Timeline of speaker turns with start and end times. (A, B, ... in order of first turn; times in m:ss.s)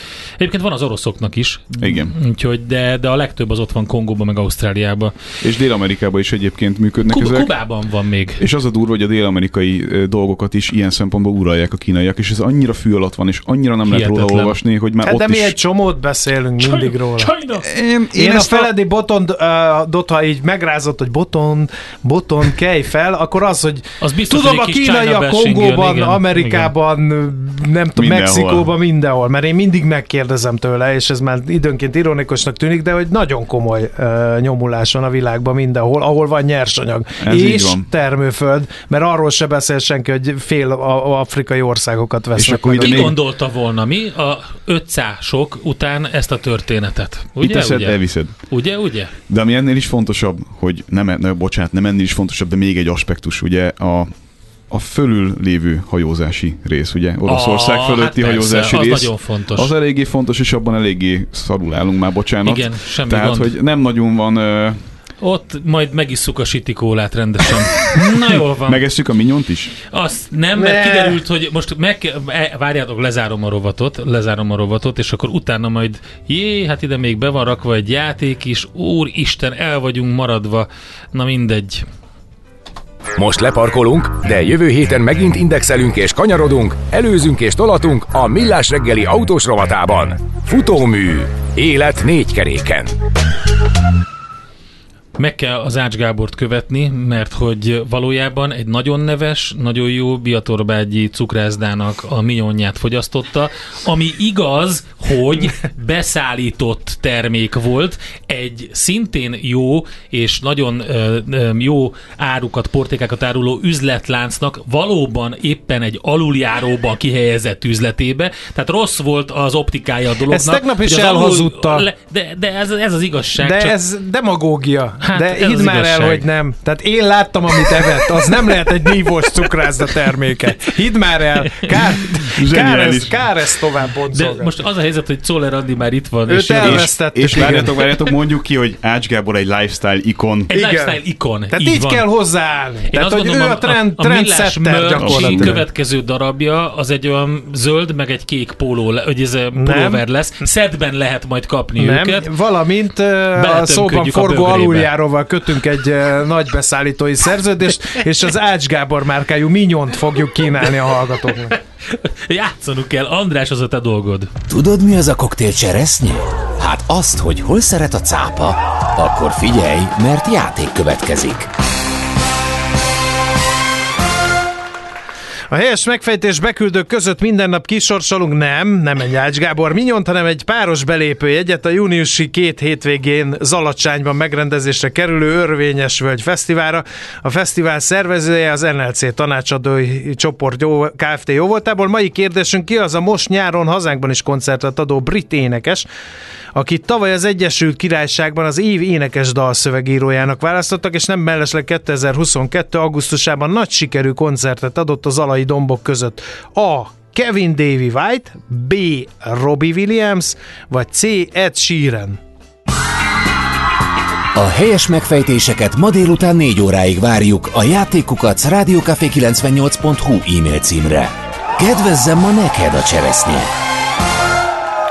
0:00.4-0:05.2 A
0:01.8-0:02.1 B
0:05.4-0:07.5 B
0:07.1-0:08.4 A
0:08.4-0:15.6 B
0:13.9-0:14.6 A
0:15.0-0:17.3 C
0:16.6-0:17.7 A
0:17.5-0:18.7 B
0:18.1-0:43.1 C
0:24.0-0:26.7 A
0:28.0-0:28.7 B
0:37.2-0:37.9 B
0:42.4-0:43.2 B
0:42.8-0:49.1 A
0:47.4-0:48.4 B
0:49.3-0:54.1 B
0:54.7-1:04.8 B
0:57.3-0:59.7 A
1:02.4-1:03.5 A
1:05.2-1:08.8 A
1:07.9-1:09.7 B
1:09.9-1:21.8 A
1:10.6-1:11.2 C
1:23.2-1:33.0 D
1:35.2-2:03.7 A
2:00.3-2:01.9 C
2:03.4-2:14.5 C
2:05.0-2:06.2 A
2:11.5-2:11.8 A
2:12.3-2:13.2 B
2:14.1-2:16.9 A
2:16.3-2:18.0 C
2:16.6-2:20.5 B
2:20.5-2:21.0 C
2:20.5-2:22.0 A
2:21.5-2:25.6 C
2:22.9-2:32.3 A
2:25.0-2:25.6 B
2:29.6-2:30.0 C
2:31.8-2:41.6 C
2:33.4-2:34.9 A
2:41.9-2:44.3 A
2:44.5-2:51.5 E
2:55.5-3:15.9 C
3:16.5-3:32.2 C
3:34.4-3:43.5 E